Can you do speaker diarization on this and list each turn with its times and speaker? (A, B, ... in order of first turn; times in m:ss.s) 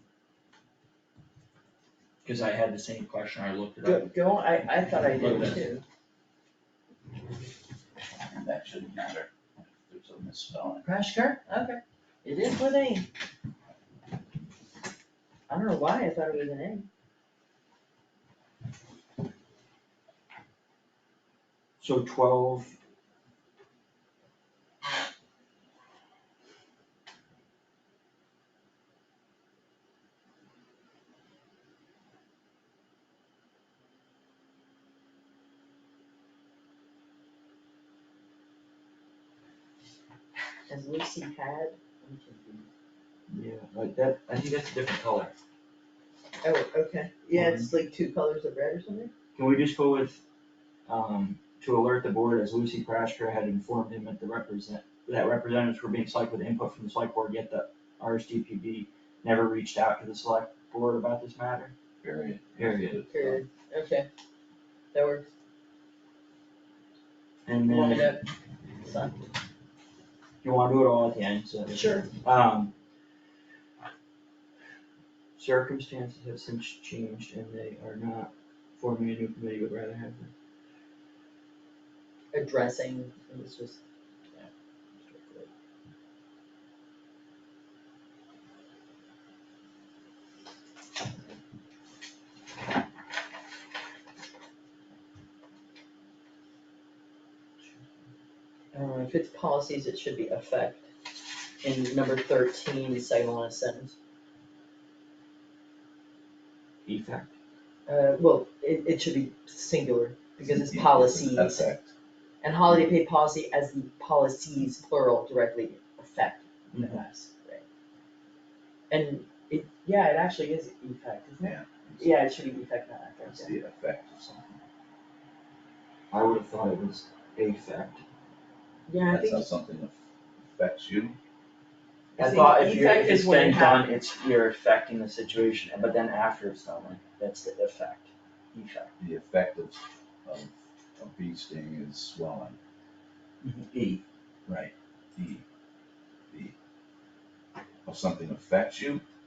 0:02.2-0:04.1 A
0:03.8-0:05.8 B
0:05.2-0:05.7 A
0:08.3-0:10.8 C
0:10.8-0:13.1 B
0:15.5-0:16.9 B
0:21.8-0:22.8 A
0:40.7-0:42.7 B
0:43.3-0:45.3 A
0:46.4-0:49.1 B
0:47.3-0:47.7 A
0:49.4-0:50.2 A
0:50.9-1:01.7 A
1:02.0-1:03.4 C
1:02.6-1:03.0 A
1:03.1-1:04.1 B
1:04.9-1:05.3 B
1:07.5-1:08.2 A
1:07.6-1:08.3 B
1:08.8-1:09.2 B
1:10.4-1:12.7 A
1:11.7-1:12.1 B
1:15.4-1:20.3 A
1:22.3-1:23.8 B
1:25.0-1:25.5 B
1:38.7-1:40.9 B
1:41.6-1:44.0 B
1:46.8-1:47.3 A
1:47.9-1:51.7 B
1:50.4-1:51.9 C
1:52.4-1:57.6 B
1:56.7-1:57.0 A
1:58.9-2:03.5 B
2:01.4-2:02.1 C
2:03.2-2:04.6 C
2:06.1-2:08.0 A
2:08.9-2:09.5 B
2:09.1-2:10.0 C
2:10.5-2:11.2 C
2:12.2-2:13.9 B
2:12.2-2:18.9 A
2:19.0-2:22.6 C
2:23.4-2:24.0 A
2:24.5-2:25.4 C
2:27.9-2:29.0 C